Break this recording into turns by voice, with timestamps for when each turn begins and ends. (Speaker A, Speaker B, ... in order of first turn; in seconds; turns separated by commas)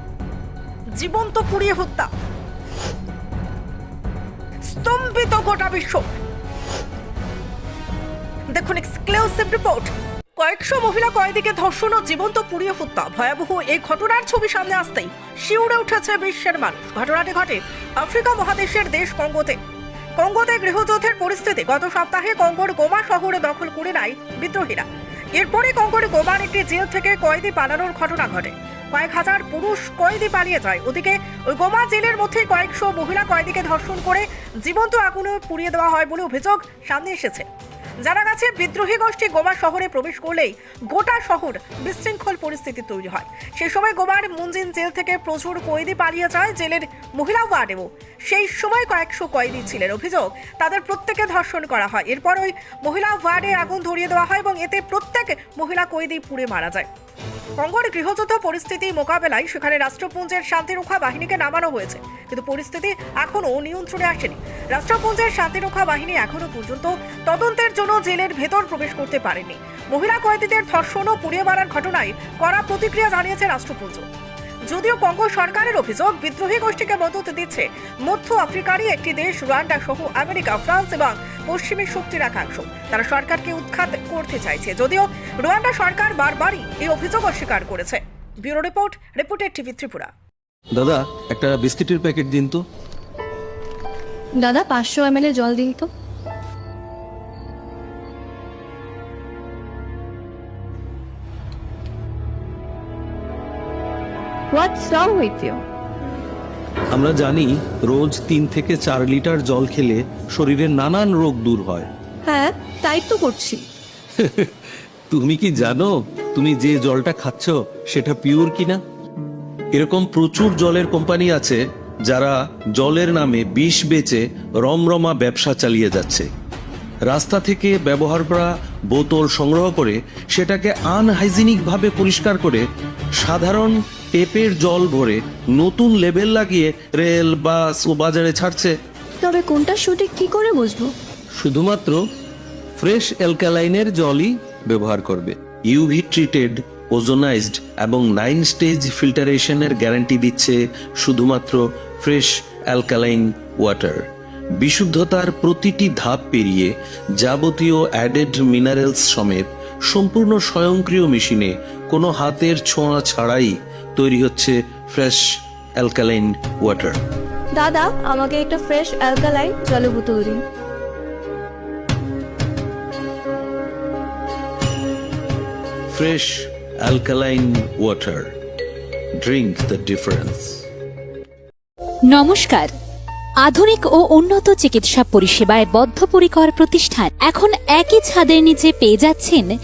Speaker A: 1.0-2.1, Speaker A: 4.7-6.0, Speaker A: 8.5-19.6, Speaker A: 20.2-37.5, Speaker A: 38.0-56.9, Speaker A: 57.6-74.0, Speaker A: 74.7-90.1, Speaker B: 90.7-92.6, Speaker C: 94.4-95.9, Speaker C: 104.5-105.6, Speaker B: 106.9-111.9, Speaker C: 112.2-113.6, Speaker B: 114.2-114.5, Speaker B: 115.1-118.8, Speaker B: 119.7-126.3, Speaker B: 127.1-132.6, Speaker B: 133.2-138.7, Speaker C: 139.2-140.9, Speaker B: 141.4-142.0, Speaker B: 142.8-154.0, Speaker B: 154.6-165.2, Speaker B: 165.8-167.0, Speaker C: 167.5-170.4, Speaker B: 175.9-178.3, Speaker B: 179.2-180.6, Speaker D: 182.1-182.7, Speaker D: 183.4-189.5